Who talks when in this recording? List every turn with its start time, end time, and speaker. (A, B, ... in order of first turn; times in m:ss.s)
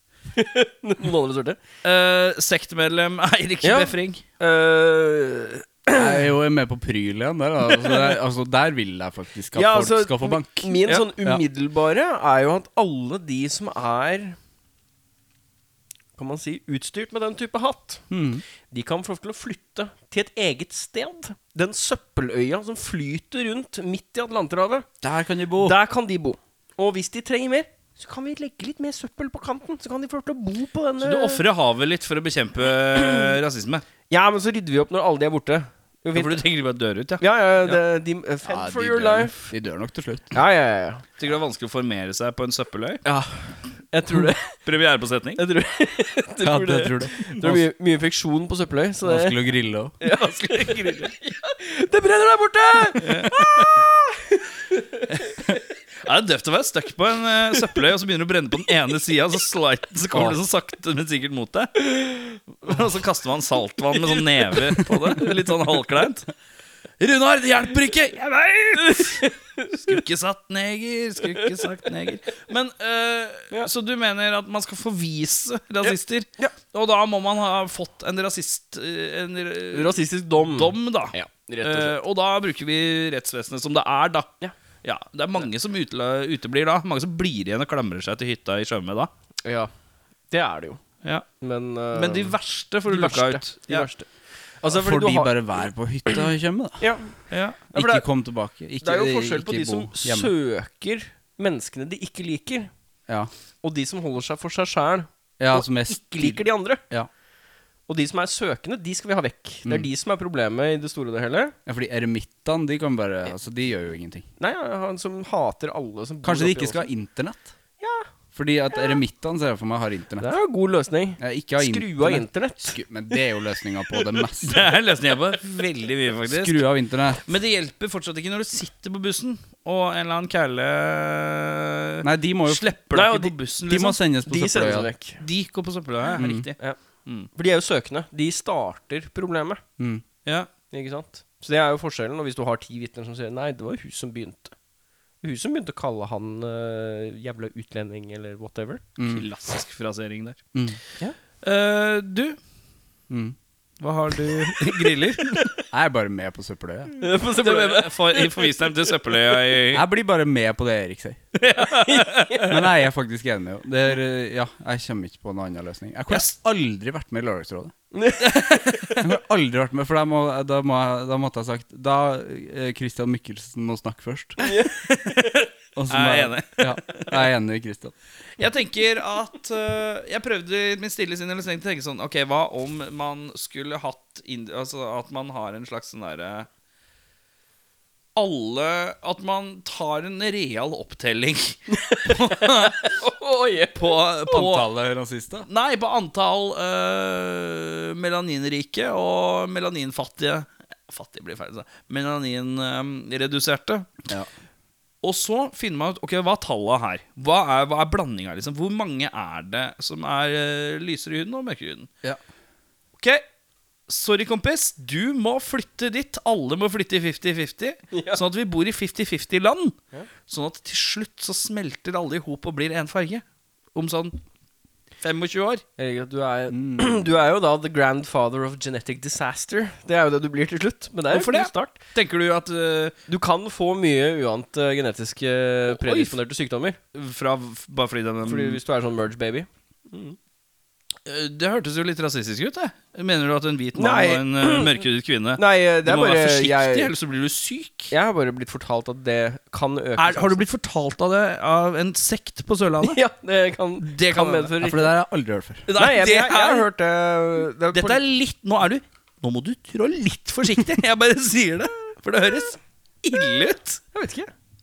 0:00.3-0:01.6 A
0:01.8-0:04.2 B
0:03.6-0:06.2 A
0:05.9-0:11.4 C
0:09.5-0:14.4 A
0:16.2-0:18.0 A
0:18.1-0:18.4 C
0:18.7-0:24.9 A
0:25.0-0:25.8 C
0:25.6-0:31.4 A
0:31.0-0:33.8 B
0:34.1-0:36.4 A
0:36.1-0:37.8 B
0:37.2-0:39.5 A
0:38.4-0:40.4 C
0:40.3-0:41.0 A
0:41.2-0:43.0 B
0:43.0-0:44.6 A
0:44.6-0:45.4 B
0:45.4-0:49.4 A
0:46.4-0:47.6 C
0:49.0-0:49.9 C
0:50.0-0:55.4 A
0:50.4-0:51.0 B
0:53.0-0:53.8 B
0:56.0-1:01.9 B
1:02.6-1:06.3 B
1:04.7-1:05.3 A
1:07.0-1:20.0 B
1:08.8-1:09.7 A
1:15.8-1:16.6 A
1:19.7-1:22.0 A
1:20.6-1:24.3 B
1:24.8-1:29.1 B
1:29.4-1:29.7 A
1:30.3-1:30.8 A
1:31.4-1:32.3 A
1:31.9-1:33.9 B
1:32.9-1:34.1 A
1:34.6-1:35.3 A
1:34.7-1:36.9 C
1:36.8-1:38.0 A
1:37.3-1:37.6 B
1:37.7-1:40.3 C
1:38.8-1:42.7 A
1:43.6-1:46.8 A
1:45.4-1:47.1 C
1:47.9-1:51.6 A
1:51.6-1:54.3 C
1:54.4-1:56.9 A
1:56.2-1:57.5 C
1:57.8-1:58.1 A
1:58.3-2:00.3 C
2:00.2-2:02.8 A
2:01.2-2:04.6 C
2:04.4-2:14.0 B
2:06.3-2:07.2 C
2:12.0-2:12.6 C
2:12.9-2:13.3 A
2:13.7-2:14.9 C
2:14.2-2:15.2 A
2:15.2-2:17.3 B
2:16.2-2:16.5 C
2:17.3-2:19.6 A
2:19.8-2:20.0 C
2:20.7-2:24.5 A
2:25.2-2:28.8 A
2:29.0-2:29.3 C
2:29.1-2:30.4 B
2:31.4-2:32.4 B
2:33.1-2:33.3 C
2:33.8-2:35.5 B
2:35.7-2:36.9 C
2:37.0-2:39.3 A
2:37.3-2:39.8 B
2:39.7-2:41.2 C
2:41.4-2:42.6 B
2:41.4-2:42.6 A
2:42.4-2:47.7 C
2:47.9-2:48.6 A
2:48.2-2:49.0 B
2:49.0-2:54.4 C
2:54.4-2:54.8 A
2:54.4-2:57.3 B
2:55.7-2:57.9 C
2:58.4-3:06.5 B
3:08.2-3:13.0 B
3:11.7-3:14.0 A
3:13.7-3:14.7 B
3:14.3-3:15.5 C
3:15.5-3:24.0 B
3:25.0-3:31.9 B
3:33.9-3:43.2 B
3:37.9-3:38.2 A
3:43.7-3:44.2 B
3:45.0-3:45.6 B
3:45.8-3:51.8 A
3:46.5-3:47.0 C
3:51.1-3:53.0 B
3:53.1-3:56.8 A
3:55.7-3:56.1 B
3:56.9-3:58.6 B
3:58.2-4:00.2 A
4:01.0-4:07.9 B
4:03.8-4:04.8 A
4:05.4-4:06.9 A
4:07.9-4:10.4 A
4:10.0-4:13.0 B
4:12.8-4:14.9 A
4:13.8-4:14.5 B
4:14.6-4:15.6 C
4:15.7-4:16.7 B
4:15.8-4:18.0 A
4:17.7-4:23.8 B
4:23.9-4:24.3 A